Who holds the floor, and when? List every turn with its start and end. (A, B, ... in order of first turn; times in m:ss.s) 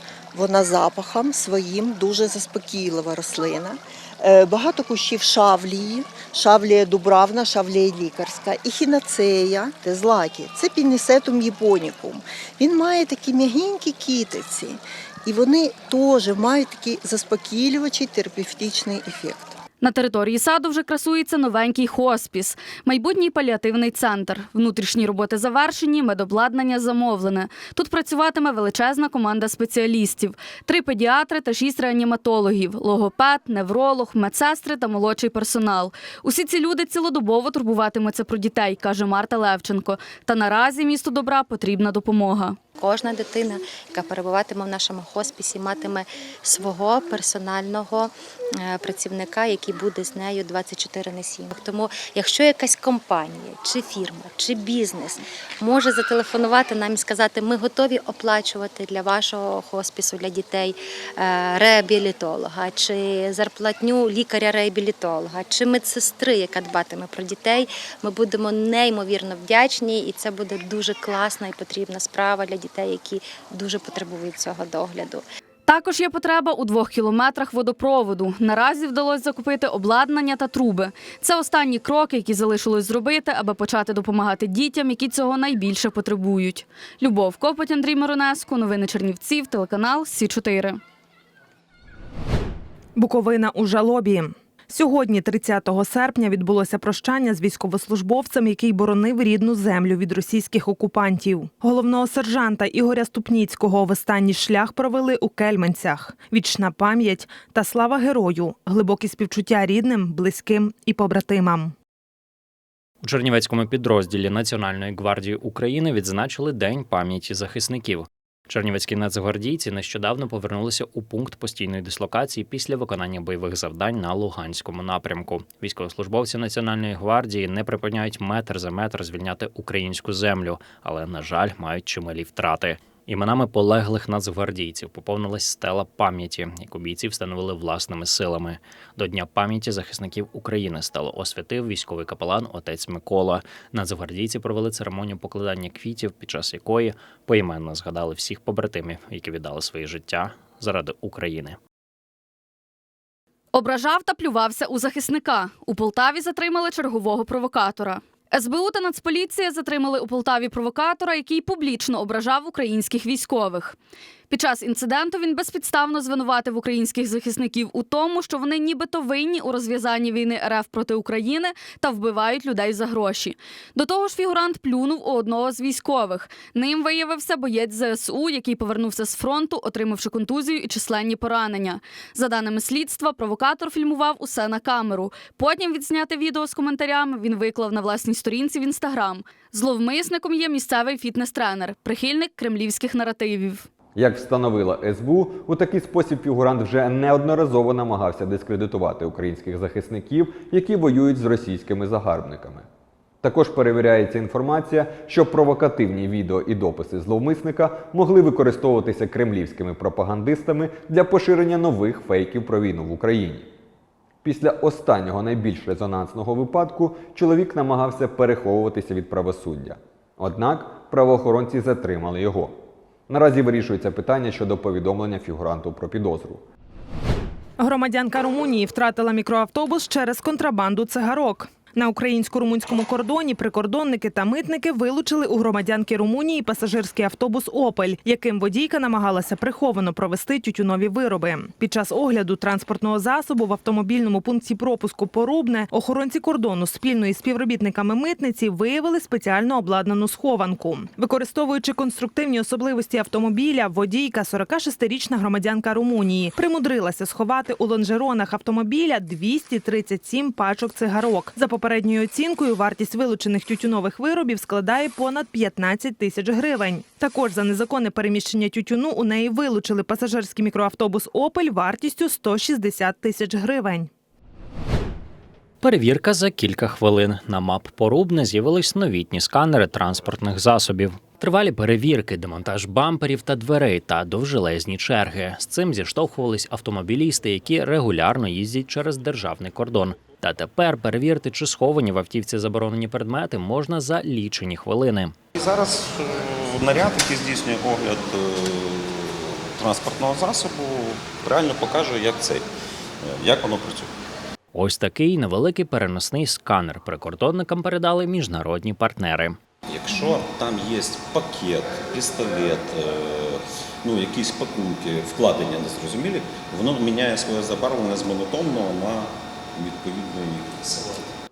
0:00.3-0:19.6 A
0:19.8-0:42.6 B
0:42.8-0:48.1 C
0:48.6-1:15.2 C
1:15.6-1:30.8 B
1:33.0-1:51.7 D
1:53.0-2:31.6 E
2:33.5-2:43.8 B
2:44.3-3:13.7 B
3:14.0-3:22.6 F
3:23.2-3:33.5 F
3:34.2-3:42.6 F
3:43.1-3:46.4 F
3:47.6-4:33.9 D
4:35.6-4:55.1 E
4:55.4-5:02.5 G
5:03.0-5:03.9 G
5:04.5-5:09.4 E
5:09.7-5:21.0 G